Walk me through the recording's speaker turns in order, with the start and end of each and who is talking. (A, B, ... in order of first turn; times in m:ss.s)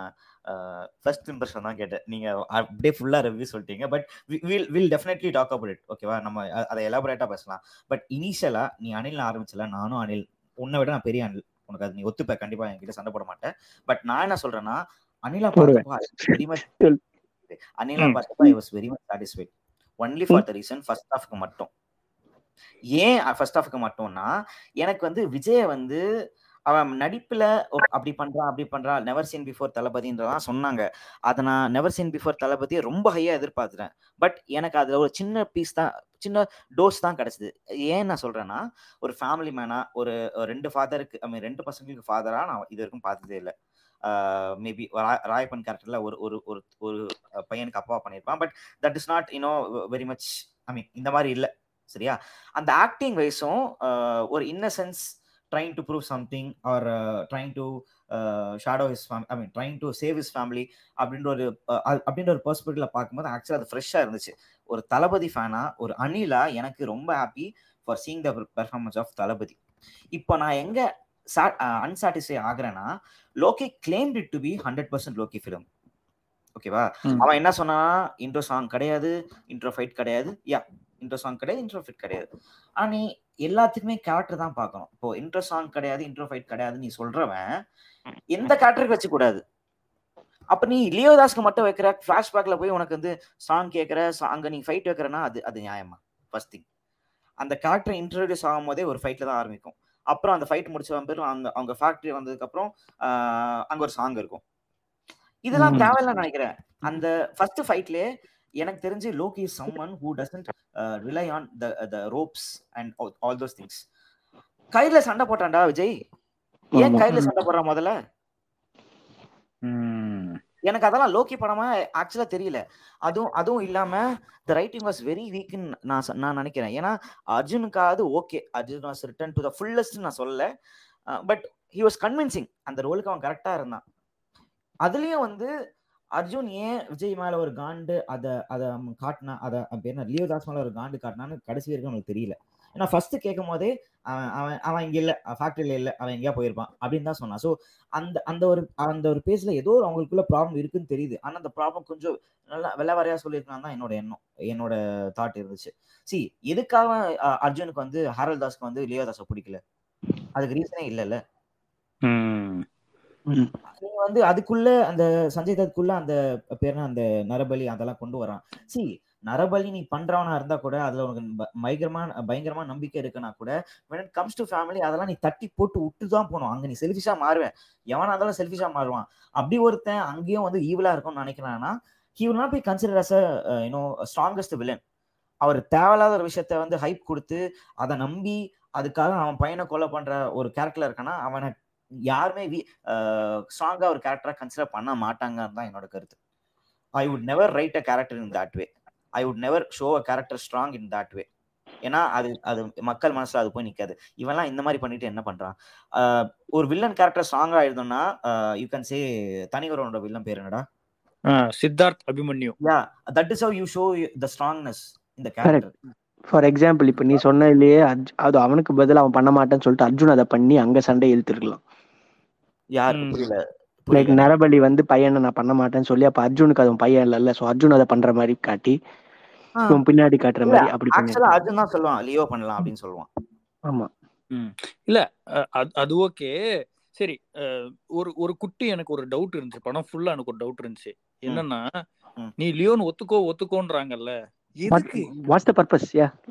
0:00.4-0:16.6 A
0:15.6-0:17.0 B
0:17.5-0:21.7 A
0:23.0-0:24.3 A
0:24.8-0:26.0 A
0:26.7-0:43.5 A
0:44.0-1:09.6 A
1:10.2-1:12.8 A
1:13.4-1:15.6 A
1:16.6-1:22.2 A
1:22.8-1:27.4 A
1:28.3-1:29.4 A
1:30.5-1:36.6 A
1:37.4-1:44.4 A
1:45.4-1:48.1 A
1:45.6-1:45.9 B
1:48.6-1:53.8 A
1:54.7-1:55.9 A
1:56.8-1:57.3 B
1:56.8-1:57.9 A
1:59.6-2:00.4 C
2:00.7-2:10.4 A
2:11.1-2:13.8 A
2:14.8-2:15.5 A
2:16.2-2:39.6 A
2:40.3-2:41.2 A
2:42.1-2:42.6 C
2:43.8-3:04.8 A
3:05.4-3:11.5 A
3:12.1-3:16.2 A
3:17.0-3:21.2 A
3:21.8-3:30.6 A
3:31.3-3:32.5 C
3:32.6-3:35.7 A
3:36.3-3:41.6 B
3:42.8-3:44.3 A
3:42.9-3:43.2 C
3:43.9-3:48.8 B
3:49.7-3:51.3 B
3:50.4-3:53.1 A
3:54.3-3:56.3 C
3:57.0-4:01.6 C
4:02.4-4:05.1 C
4:04.7-4:06.1 B